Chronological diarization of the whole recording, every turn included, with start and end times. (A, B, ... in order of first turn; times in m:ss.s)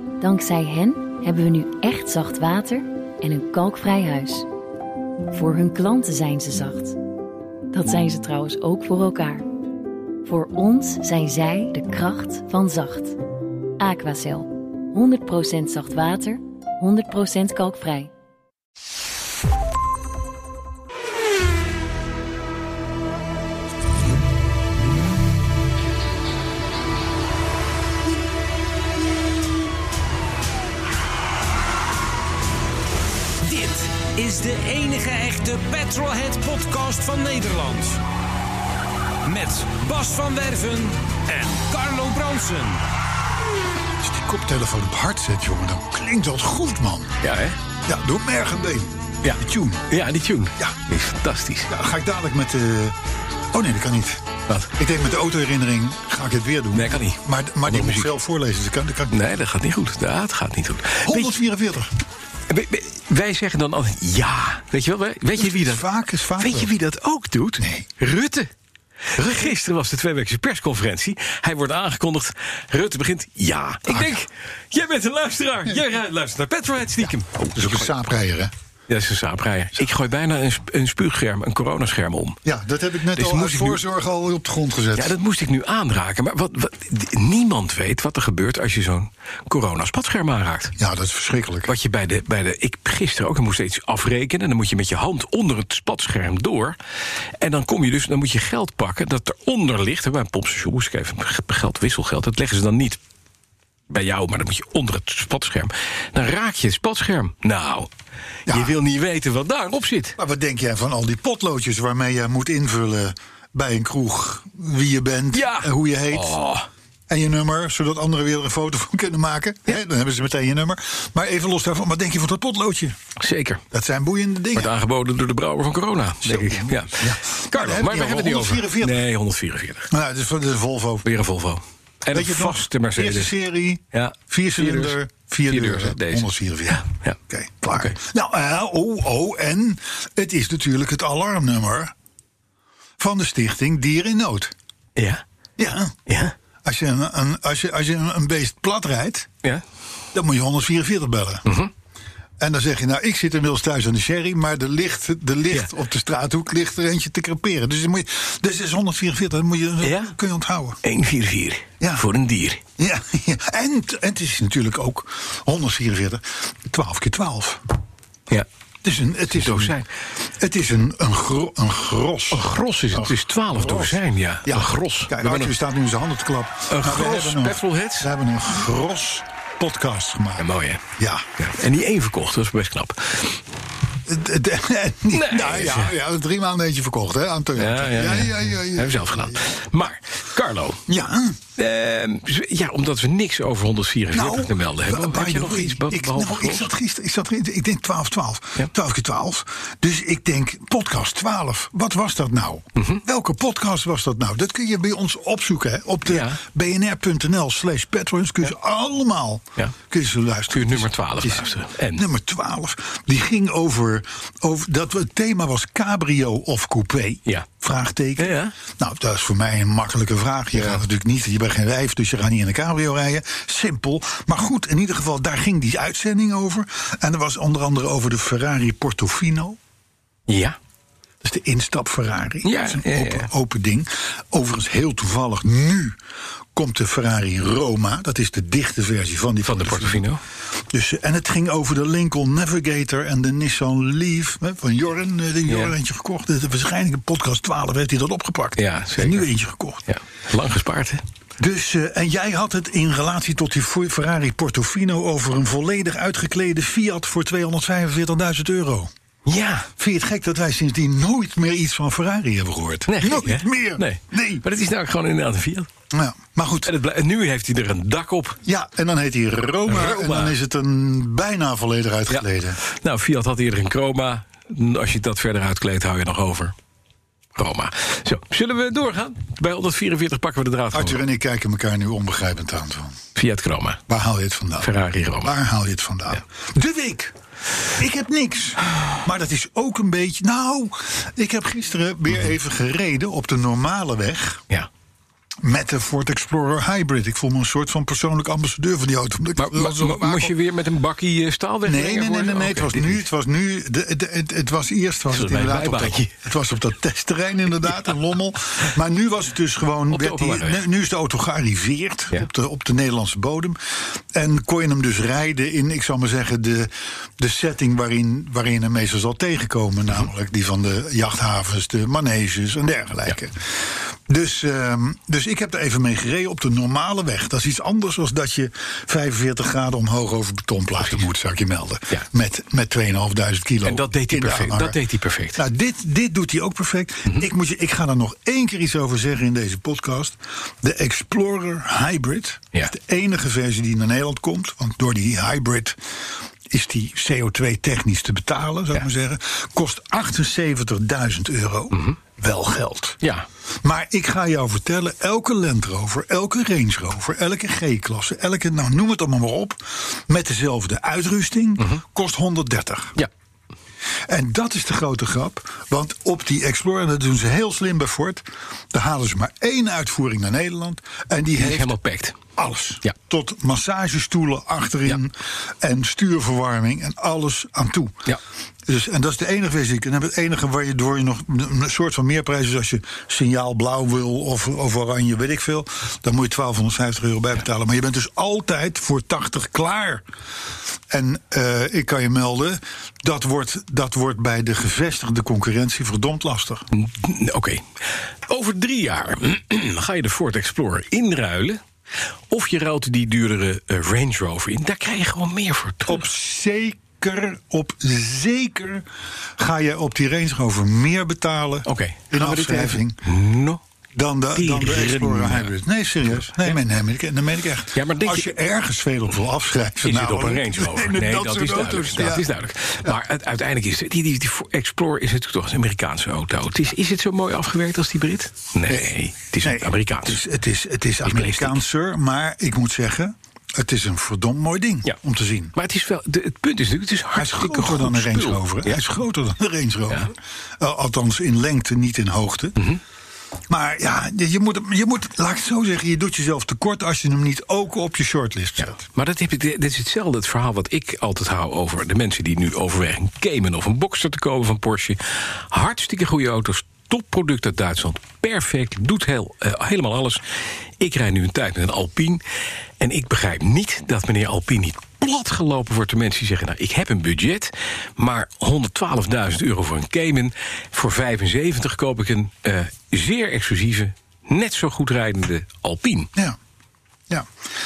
0:00.2-0:04.5 A
0:05.3-0:07.0 A
0:07.7-0:09.4 A
0:10.2-0:13.2 A
0:13.8-0:18.1 A
0:33.4-0:38.0 B
0:39.2-0:42.8 B
0:44.0-0:47.2 C
0:47.2-0:47.6 D
0:47.8-0:49.8 C
0:49.2-0:51.7 D
0:51.7-0:53.0 C
0:53.5-0:54.2 C
0:54.5-0:54.7 D
0:54.8-0:59.2 C
0:56.7-0:58.1 D
0:59.1-1:01.4 D
1:01.0-1:01.9 C
1:02.5-1:05.8 D
1:05.4-1:06.7 C
1:06.4-1:08.5 D
1:07.6-1:07.9 C
1:09.2-1:17.9 D
1:13.9-1:14.2 C
1:17.5-1:18.5 C
1:18.9-1:22.4 D
1:22.4-1:25.1 C
1:23.1-1:23.8 D
1:25.0-1:30.7 D
1:30.8-1:31.7 C
1:31.6-1:36.8 D
1:37.4-1:43.0 D
1:43.9-1:47.9 D
1:48.5-1:48.8 C
1:48.5-1:50.2 D
1:50.2-1:56.4 C
1:55.3-1:56.7 D
1:57.1-2:03.0 C
2:03.2-2:03.6 D
2:03.7-2:04.7 C
2:04.6-2:09.9 D
2:06.2-2:09.0 C
2:09.9-2:11.0 C
2:11.0-2:13.3 D
2:12.1-2:21.9 C
2:13.9-2:17.2 D
2:23.0-2:24.5 C
2:25.0-2:25.2 D
2:25.6-2:26.0 C
2:26.1-2:26.3 D
2:26.6-2:29.3 C
2:30.1-2:31.4 C
2:31.4-2:31.7 D
2:32.4-2:40.8 C
2:39.8-2:40.1 D
2:40.8-2:42.6 D
2:41.8-2:42.1 C
2:42.8-2:47.6 C
2:48.8-2:49.8 C
2:49.3-2:49.9 D
2:50.4-3:00.5 C
2:52.3-2:55.5 D
2:56.7-2:58.1 D
3:00.4-3:00.8 D
3:01.0-3:01.3 C
3:01.4-3:03.4 D
3:04.0-3:09.4 C
3:05.1-3:05.9 D
3:07.6-3:10.8 D
3:10.9-3:11.4 C
3:11.6-3:16.7 D
3:14.1-3:49.6 C
3:26.0-3:26.4 D
3:30.5-3:32.0 D
3:38.2-3:38.5 D
3:40.5-3:40.8 D
3:50.3-3:50.6 D
3:51.2-3:56.0 C
3:52.4-3:53.3 D
3:56.6-4:00.0 C
3:59.4-4:00.2 D
4:00.6-4:09.8 C
4:05.5-4:05.7 D
4:08.6-4:09.3 D
4:09.9-4:11.0 D
4:11.4-4:18.9 C
4:19.2-4:19.7 D
4:19.8-4:24.4 C
4:22.9-4:25.7 D
4:25.9-4:26.7 C
4:26.6-4:28.4 D
4:28.4-4:32.6 C
4:29.7-4:30.3 D
4:32.1-4:36.5 D
4:37.4-4:41.0 D
4:40.7-4:43.0 C
4:43.1-4:43.8 D
4:43.9-4:47.1 C
4:44.6-4:45.3 D
4:47.8-4:54.4 C
4:55.4-5:00.3 C
4:59.4-5:03.0 D
5:01.6-5:34.8 C
5:05.1-5:06.1 D
5:09.9-5:10.6 D
5:33.6-5:35.4 D
5:35.4-5:45.8 C
5:46.5-5:53.0 C
5:53.6-6:03.0 C
6:04.1-6:11.8 C
6:11.4-6:12.2 D
6:12.4-6:18.1 C
6:18.7-6:30.0 C
6:30.9-6:36.6 C
6:36.7-6:37.6 D
6:38.3-6:41.6 D
6:42.3-6:46.0 D
6:45.8-6:48.8 C
6:49.4-6:53.0 C
6:51.6-6:53.6 D
6:53.9-7:02.3 C
6:54.3-6:55.5 D
6:56.0-6:56.6 D
6:57.7-6:58.3 D
6:59.8-7:10.2 D
7:08.7-7:15.5 C
7:11.0-7:11.6 D
7:15.5-7:18.8 D
7:17.1-7:22.6 C
7:23.5-7:28.8 C
7:28.6-7:40.2 D
7:40.8-7:42.2 D
7:42.8-7:56.1 D